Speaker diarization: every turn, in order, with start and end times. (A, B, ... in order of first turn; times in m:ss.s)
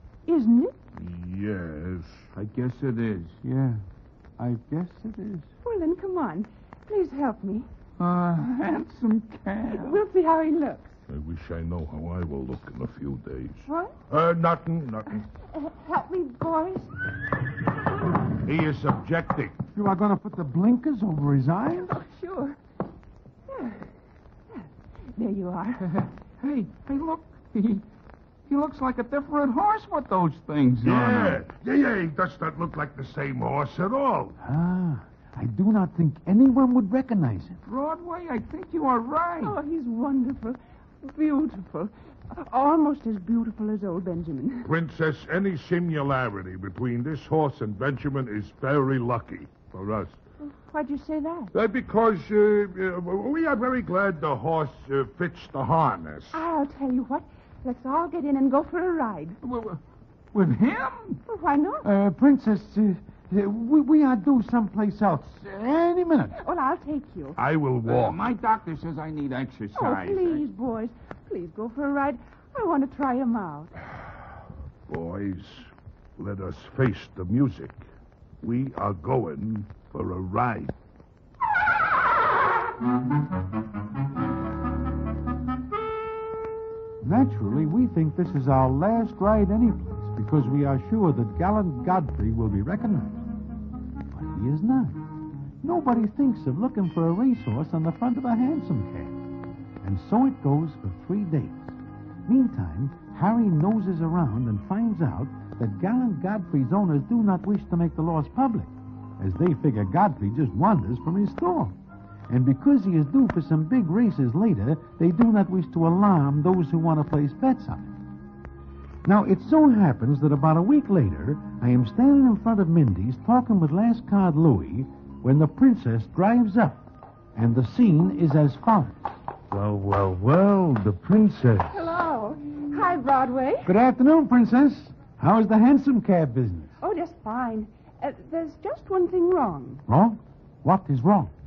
0:00.2-0:00.8 A
0:00.9-0:02.3 B
0:02.3-0:03.4 C
0:03.4-0:03.8 D
0:04.4-0:05.5 D
0:05.6-0:07.7 A
0:08.0-0:10.0 C
0:09.7-0:10.9 A
0:11.1-0:15.2 B
0:13.6-0:13.9 A
0:15.5-0:16.9 A
0:18.4-0:19.6 B
0:19.7-0:21.9 D
0:21.9-0:22.6 A
0:23.5-0:23.9 A
0:24.5-0:25.9 A
0:25.9-0:27.8 C
0:28.5-0:31.4 C
0:30.8-0:34.4 B
0:34.4-0:37.6 D
0:37.6-0:39.6 C
0:39.4-0:44.7 A
0:44.6-0:50.2 B
0:50.4-0:51.5 A
0:51.5-0:56.4 B
0:56.3-0:59.4 A
0:59.4-0:59.8 C
1:00.3-1:01.2 C
1:01.2-1:01.9 A
1:01.8-1:06.4 D
1:06.4-1:07.4 A
1:07.4-1:08.2 B
1:07.8-1:10.4 C
1:09.7-1:13.7 A
1:14.9-1:17.8 B
1:18.4-1:20.7 B
1:27.0-1:33.3 D
1:34.1-1:35.0 D
1:35.6-1:39.2 D
1:39.8-1:51.8 D
1:52.3-1:58.0 D
1:59.0-2:06.8 D
2:07.3-2:09.0 D
2:09.5-2:11.8 E
2:11.7-2:13.7 A
2:13.6-2:16.7 D
2:16.8-2:19.8 A
2:19.9-2:21.3 D